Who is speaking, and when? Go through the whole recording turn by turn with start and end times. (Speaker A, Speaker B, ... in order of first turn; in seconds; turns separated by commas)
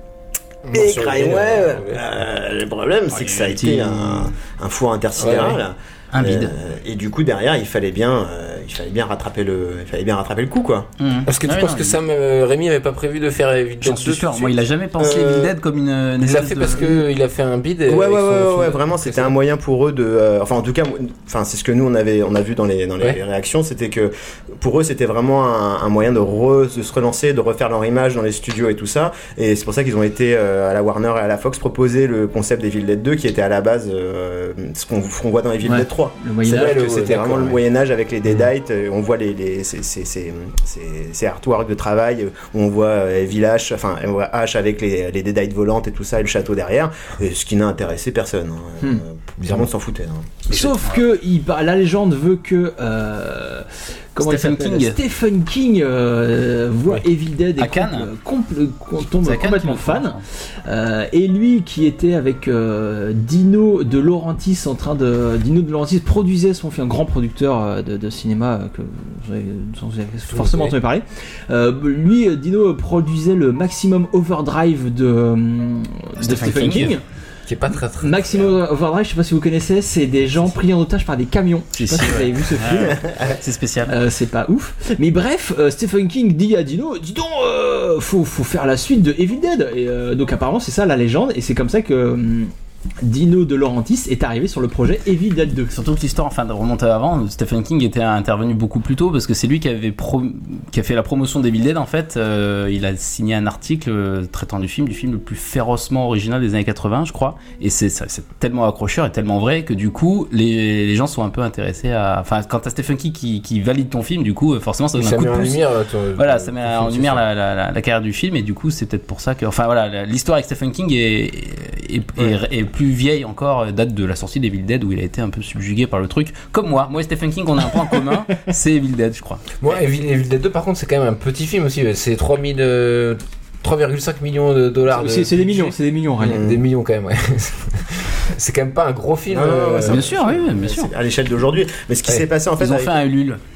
Speaker A: 0.7-2.0, Speaker B: 0.7-10.9, Speaker C: 3.1-4.3, Speaker A: 5.2-5.6, Speaker C: 6.1-6.5, Speaker C: 11.0-12.0, Speaker A: 11.2-15.1, Speaker C: 13.8-16.9, Speaker B: 15.0-15.5, Speaker A: 16.2-19.4, Speaker B: 17.9-50.5, Speaker D: 35.6-37.2, Speaker A: 36.4-37.6, Speaker A: 49.4-49.7, Speaker D: 50.5-77.0, Speaker C: 54.2-55.0, Speaker C: 57.6-58.1, Speaker C: 59.2-60.2, Speaker A: 70.3-70.8, Speaker C: 76.2-77.0, Speaker A: 77.5-78.6, Speaker D: 78.0-83.0, Speaker C: 81.7-83.9, Speaker B: 82.8-83.4, Speaker D: 83.9-92.5, Speaker D: 93.0-95.7, Speaker C: 95.7-129.6, Speaker A: 114.9-117.2, Speaker A: 129.6-140.1, Speaker D: 134.9-136.4, Speaker B: 136.2-136.6, Speaker B: 139.3-143.0, Speaker C: 139.8-140.9, Speaker C: 142.6-143.4